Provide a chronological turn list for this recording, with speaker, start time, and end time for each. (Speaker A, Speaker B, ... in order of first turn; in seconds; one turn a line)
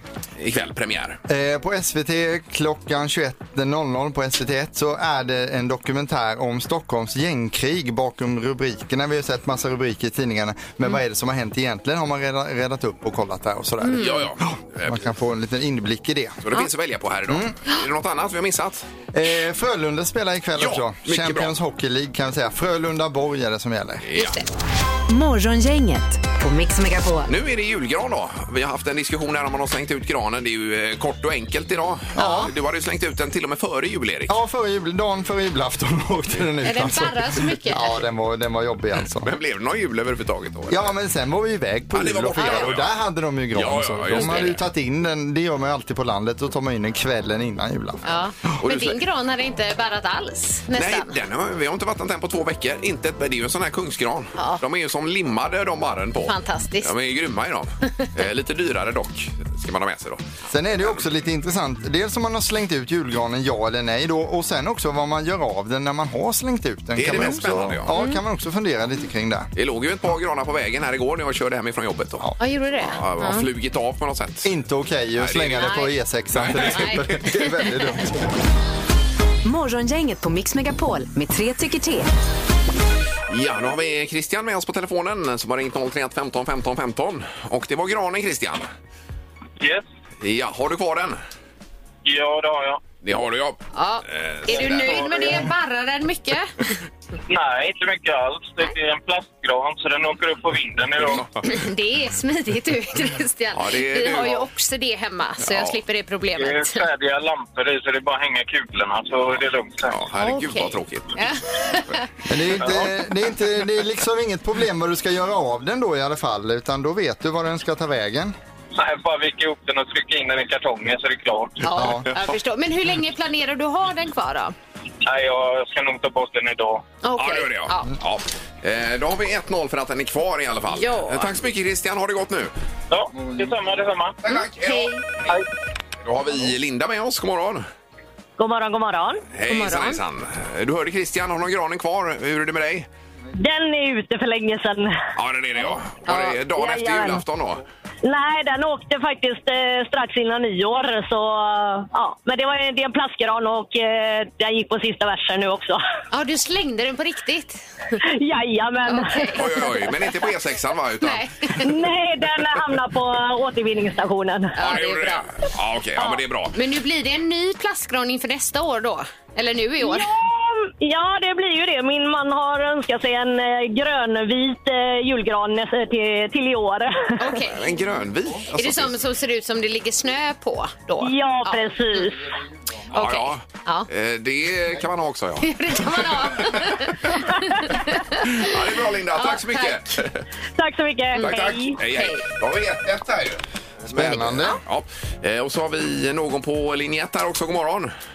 Speaker A: 0.4-1.2
Speaker B: 1.3-16.4
Speaker C: 13.8-14.2
Speaker A: 13.9-15.1
Speaker A: 16.4-18.9
Speaker B: 17.3-17.6
Speaker B: 19.1-24.1
Speaker A: 20.6-21.5
Speaker A: 24.1-24.4
Speaker C: 24.1-24.5
Speaker D: 25.1-27.3
Speaker A: 27.3-34.4
Speaker B: 32.1-32.5
Speaker C: 32.2-32.5
Speaker B: 34.3-39.3
Speaker C: 36.6-38.0
Speaker A: 39.2-40.9
Speaker B: 40.7-48.5
Speaker A: 41.9-42.9
Speaker C: 42.4-42.7
Speaker A: 43.5-44.6
Speaker C: 44.1-44.5
Speaker C: 48.0-51.1
Speaker A: 48.6-49.0
Speaker A: 50.7-60.2
Speaker C: 54.4-54.6
Speaker C: 56.3-56.9
Speaker B: 60.5-69.5
Speaker A: 67.0-67.9
Speaker C: 67.9-68.2
Speaker A: 69.6-72.2
Speaker C: 72.4-73.5
Speaker A: 72.8-74.5
Speaker B: 74.4-78.3
Speaker A: 75.2-75.7
Speaker C: 75.6-75.9
Speaker A: 76.3-77.2
Speaker C: 76.6-77.4
Speaker D: 79.4-82.1
Speaker A: 83.3-88.7
Speaker E: 89.6-89.8
Speaker A: 90.2-91.2
Speaker E: 92.0-92.8
Speaker A: 93.0-95.2
Speaker C: 93.7-96.5
Speaker E: 94.6-95.4
Speaker E: 97.3-101.3
Speaker C: 101.4-106.8
Speaker A: 103.5-104.5
Speaker A: 105.5-105.8
Speaker E: 106.4-110.0
Speaker A: 109.9-112.0
Speaker C: 110.2-112.1
Speaker B: 112.3-118.3
Speaker E: 118.7-121.7
Speaker C: 121.6-124.5
Speaker B: 121.7-122.1
Speaker E: 125.0-126.8
Speaker C: 127.0-127.9
Speaker A: 127.2-132.5
Speaker C: 130.7-131.3
Speaker E: 132.9-134.2
Speaker A: 134.2-135.1
Speaker C: 134.3-135.0
Speaker A: 136.0-137.7
Speaker F: 138.4-139.2
Speaker A: 139.3-142.9
Speaker C: 139.5-140.0
Speaker F: 143.3-145.0
Speaker A: 145.2-147.6
Speaker C: 146.1-146.4
Speaker F: 146.4-147.2
Speaker F: 148.0-155.8
Speaker C: 156.1-158.0
Speaker F: 158.0-159.7
Speaker C: 158.9-160.1
Speaker A: 159.4-161.3
Speaker C: 161.0-161.7
Speaker F: 161.6-164.6
Speaker C: 164.6-165.3
Speaker A: 164.6-166.6
Speaker C: 166.5-170.1
Speaker F: 169.8-177.2
Speaker C: 177.2-177.7
Speaker A: 177.4-179.0
Speaker C: 178.5-182.1
Speaker F: 181.0-182.3
Speaker C: 182.9-183.9
Speaker A: 182.9-187.1
Speaker C: 185.4-188.5
Speaker A: 188.2-190.2
Speaker C: 189.2-190.0
Speaker F: 190.6-191.8
Speaker C: 191.1-192.2
Speaker A: 191.2-197.9
Speaker B: 193.9-194.6